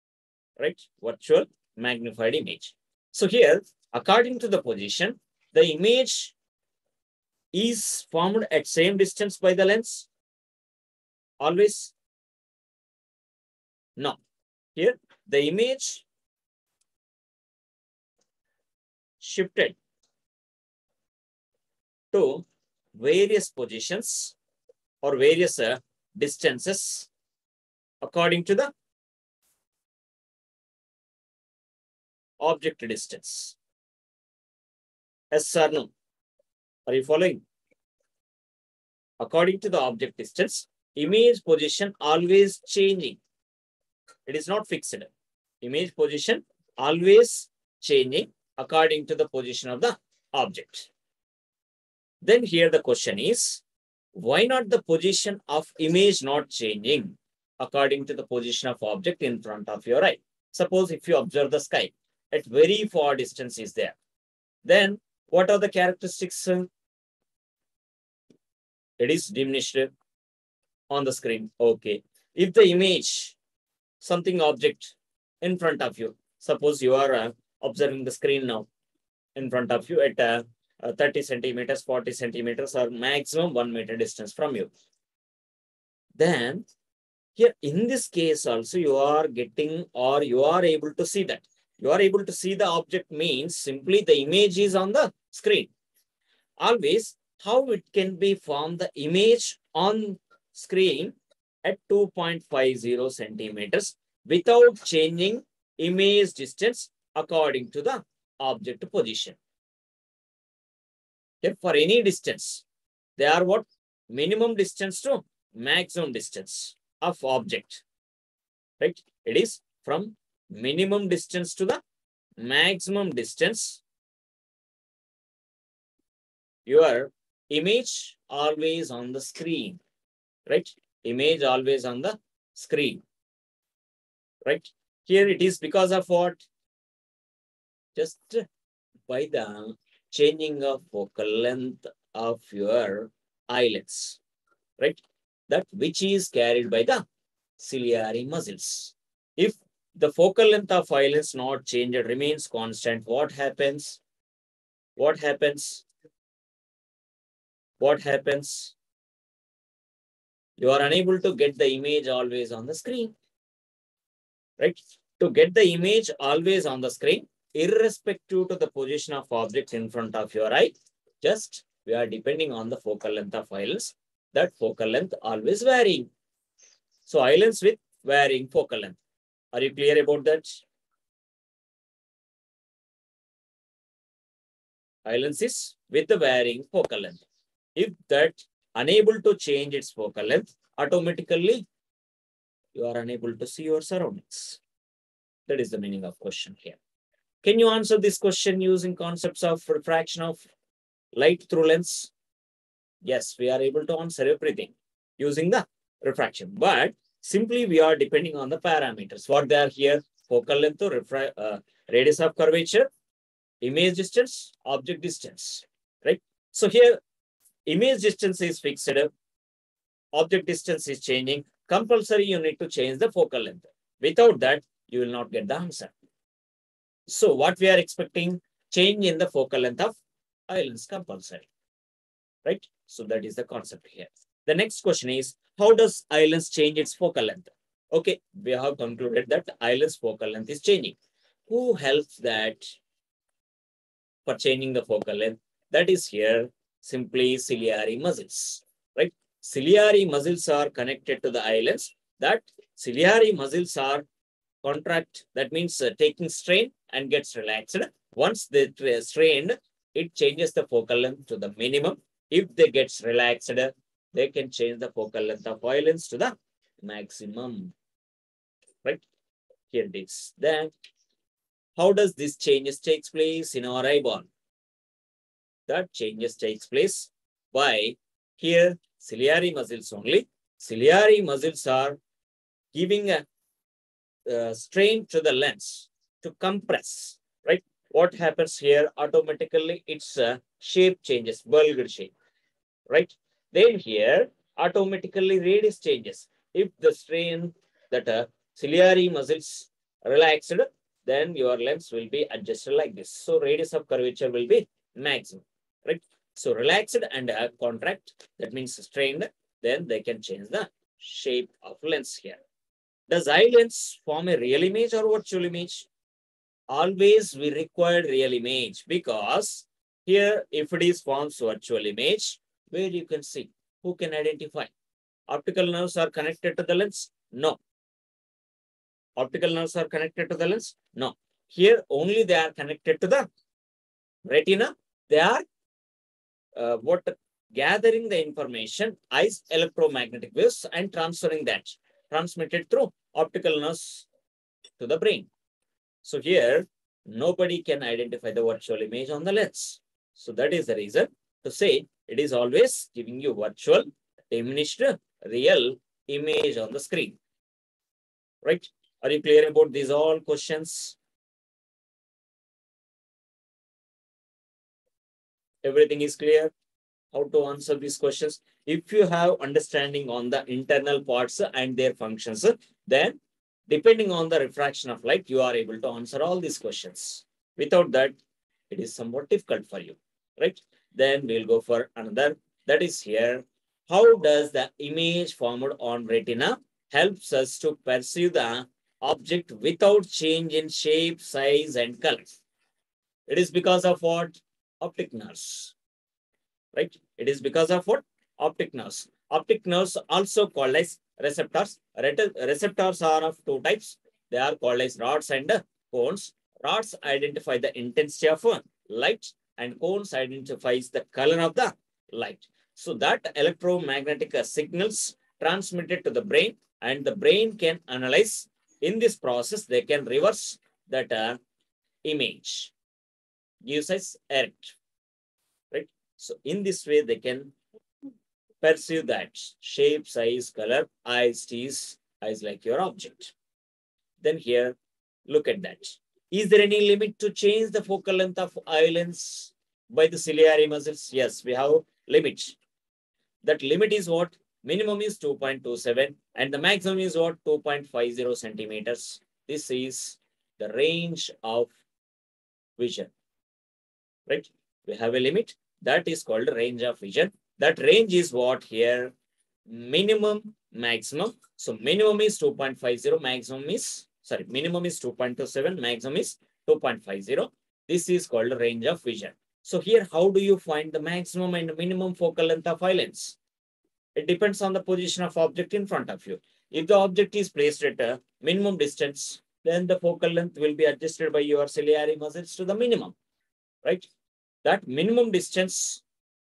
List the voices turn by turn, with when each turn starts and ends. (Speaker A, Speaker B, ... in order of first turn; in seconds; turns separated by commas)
Speaker A: 0.6-6.3, Speaker A: 7.5-10.1, Speaker A: 11.4-11.9, Speaker A: 14.8-16.1, Speaker A: 19.2-19.8, Speaker A: 22.1-24.4, Speaker A: 25.0-27.1, Speaker A: 28.0-28.7, Speaker A: 32.4-33.6, Speaker A: 35.3-35.9, Speaker A: 36.9-37.4, Speaker A: 39.2-43.2, Speaker A: 44.3-45.1, Speaker A: 45.6-50.9, Speaker A: 52.2-53.6, Speaker A: 54.1-64.0, Speaker A: 64.6-66.7, Speaker A: 69.0-69.9, Speaker A: 70.9-73.4, Speaker A: 74.0-78.7, Speaker A: 79.4-84.7, Speaker A: 86.2-86.7, Speaker A: 87.4-95.7, Speaker A: 96.6-109.4, Speaker A: 111.4-112.6, Speaker A: 113.2-117.8, Speaker A: 118.8-121.8, Speaker A: 122.4-123.8, Speaker A: 126.7-129.8, Speaker A: 130.5-133.0, Speaker A: 134.5-136.5, Speaker A: 137.9-138.4, Speaker A: 139.1-144.2, Speaker A: 144.8-147.0, Speaker A: 147.6-154.0, Speaker A: 155.0-155.8, Speaker A: 157.8-158.7, Speaker A: 160.6-163.1, Speaker A: 164.6-176.1, Speaker A: 177.1-179.0, Speaker A: 179.5-180.6, Speaker A: 185.1-187.2, Speaker A: 187.8-191.7, Speaker A: 192.8-194.6, Speaker A: 195.5-196.8, Speaker A: 197.4-200.5, Speaker A: 201.1-202.1, Speaker A: 203.0-212.9, Speaker A: 213.6-217.0, Speaker A: 217.7-219.1, Speaker A: 220.1-225.9, Speaker A: 227.1-230.0, Speaker A: 230.5-231.5, Speaker A: 232.4-241.0, Speaker A: 241.5-242.8, Speaker A: 244.3-254.1, Speaker A: 254.6-267.7, Speaker A: 269.7-270.7, Speaker A: 271.8-274.3, Speaker A: 275.7-282.0, Speaker A: 282.7-283.2, Speaker A: 284.3-292.1, Speaker A: 292.9-312.4, Speaker A: 313.1-315.9, Speaker A: 316.7-324.7, Speaker A: 325.3-327.6, Speaker A: 329.1-333.3, Speaker A: 334.3-335.4, Speaker A: 336.6-344.1, Speaker A: 344.8-345.3, Speaker A: 346.0-357.2, Speaker A: 358.4-361.0, Speaker A: 365.6-366.5, Speaker A: 367.1-373.2, Speaker A: 373.7-378.2, Speaker A: 378.7-392.4, Speaker A: 393.3-395.7, Speaker A: 396.7-421.4, Speaker A: 422.0-422.7, Speaker A: 423.6-424.8, Speaker A: 425.7-427.6, Speaker A: 428.6-433.3, Speaker A: 434.2-434.8, Speaker A: 435.3-442.6, Speaker A: 443.4-451.7, Speaker A: 452.8-453.1, Speaker A: 454.3-459.1, Speaker A: 459.7-473.4, Speaker A: 474.1-483.1, Speaker A: 484.6-486.0